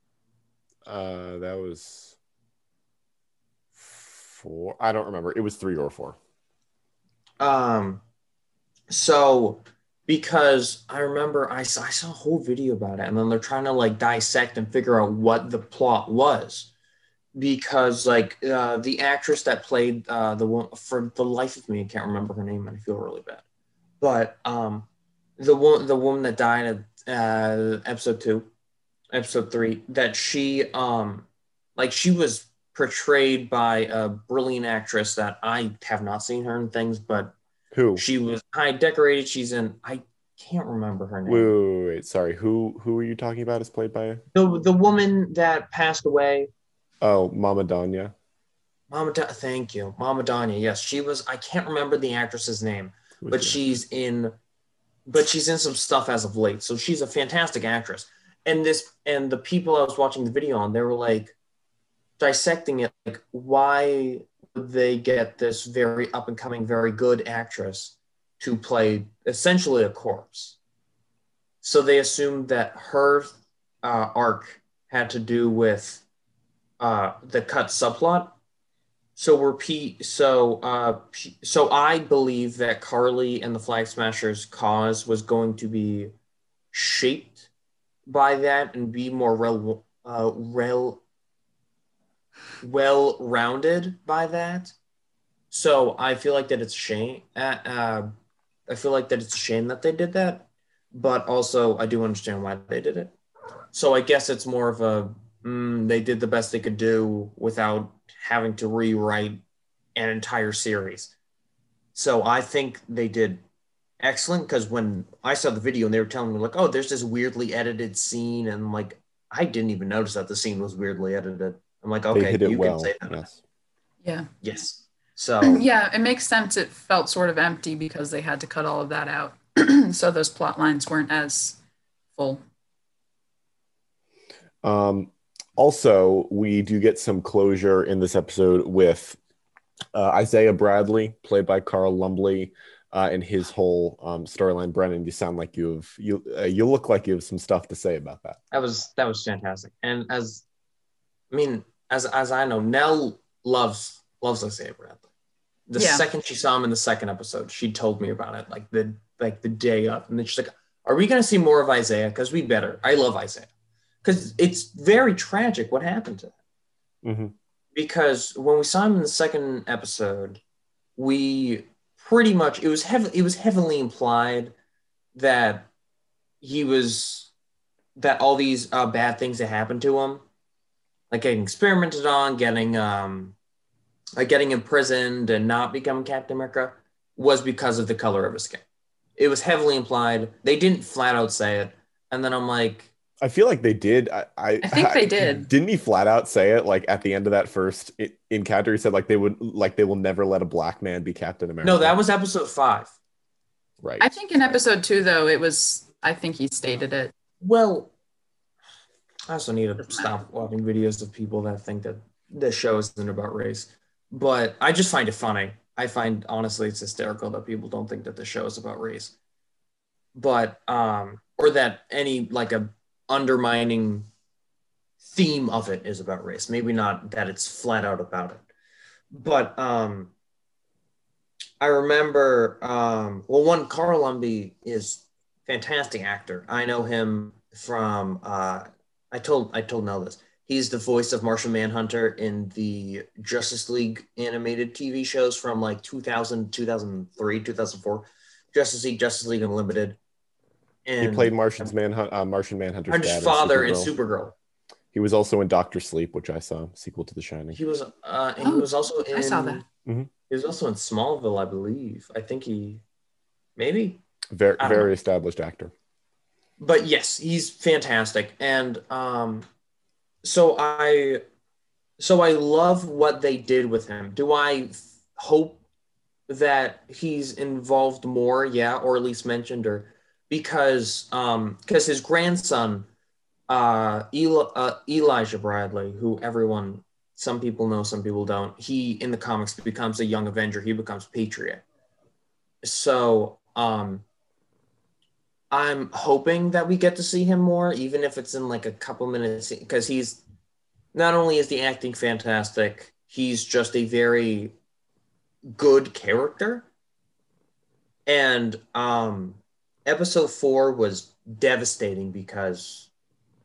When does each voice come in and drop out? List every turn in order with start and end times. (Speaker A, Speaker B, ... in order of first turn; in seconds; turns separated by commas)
Speaker A: 0.8-2.2, Speaker A: 3.8-6.2, Speaker B: 7.4-8.0, Speaker B: 8.9-16.7, Speaker B: 17.4-23.4, Speaker B: 24.0-24.9, Speaker B: 25.4-28.5, Speaker B: 29.1-31.3, Speaker B: 31.8-37.4, Speaker A: 37.7-38.0, Speaker B: 38.0-41.5, Speaker A: 41.3-44.2, Speaker B: 44.3-46.5, Speaker A: 47.0-48.1, Speaker B: 48.9-54.4, Speaker A: 53.2-53.6, Speaker B: 55.1-61.4, Speaker B: 62.2-70.6, Speaker B: 71.6-76.0, Speaker B: 76.8-78.3, Speaker B: 79.2-86.1, Speaker B: 86.7-87.5, Speaker B: 88.1-91.0, Speaker B: 92.6-94.8, Speaker B: 95.5-98.1, Speaker B: 98.7-103.1, Speaker B: 103.7-109.4, Speaker B: 110.0-111.1, Speaker B: 112.0-113.4, Speaker B: 114.0-123.3, Speaker A: 122.1-123.4, Speaker C: 124.0-124.3, Speaker B: 124.4-125.7, Speaker C: 125.4-131.6, Speaker C: 132.1-132.4, Speaker A: 134.6-139.2, Speaker A: 139.9-148.4, Speaker B: 148.5-150.4, Speaker B: 151.3-155.0, Speaker B: 155.7-163.5, Speaker C: 155.8-156.0, Speaker B: 164.0-166.3, Speaker A: 167.0-167.3, Speaker B: 167.7-170.4, Speaker B: 171.0-174.5, Speaker B: 175.1-175.7, Speaker B: 176.4-177.3, Speaker B: 178.0-180.2, Speaker B: 181.1-183.4, Speaker B: 184.2-188.6, Speaker B: 189.2-192.9, Speaker A: 193.2-202.0, Speaker C: 194.6-195.5, Speaker B: 201.6-202.9, Speaker A: 203.8-204.2, Speaker C: 204.0-207.1, Speaker B: 207.4-207.9, Speaker B: 209.3-219.2, Speaker B: 220.2-224.1, Speaker B: 225.0-228.4, Speaker B: 229.1-230.1, Speaker B: 231.6-250.0, Speaker B: 250.9-251.7, Speaker A: 251.0-253.9, Speaker B: 252.9-254.3, Speaker A: 254.9-257.6, Speaker B: 257.5-259.6, Speaker C: 258.4-259.6, Speaker B: 260.3-262.8, Speaker B: 263.6-264.0, Speaker A: 264.3-265.7, Speaker B: 264.6-264.9, Speaker B: 266.6-269.5, Speaker B: 270.2-271.2, Speaker B: 272.0-275.6, Speaker B: 276.3-282.9, Speaker B: 283.5-291.6, Speaker B: 292.6-294.1, Speaker B: 295.5-300.2, Speaker B: 300.9-304.5, Speaker B: 305.6-306.7, Speaker B: 308.1-312.9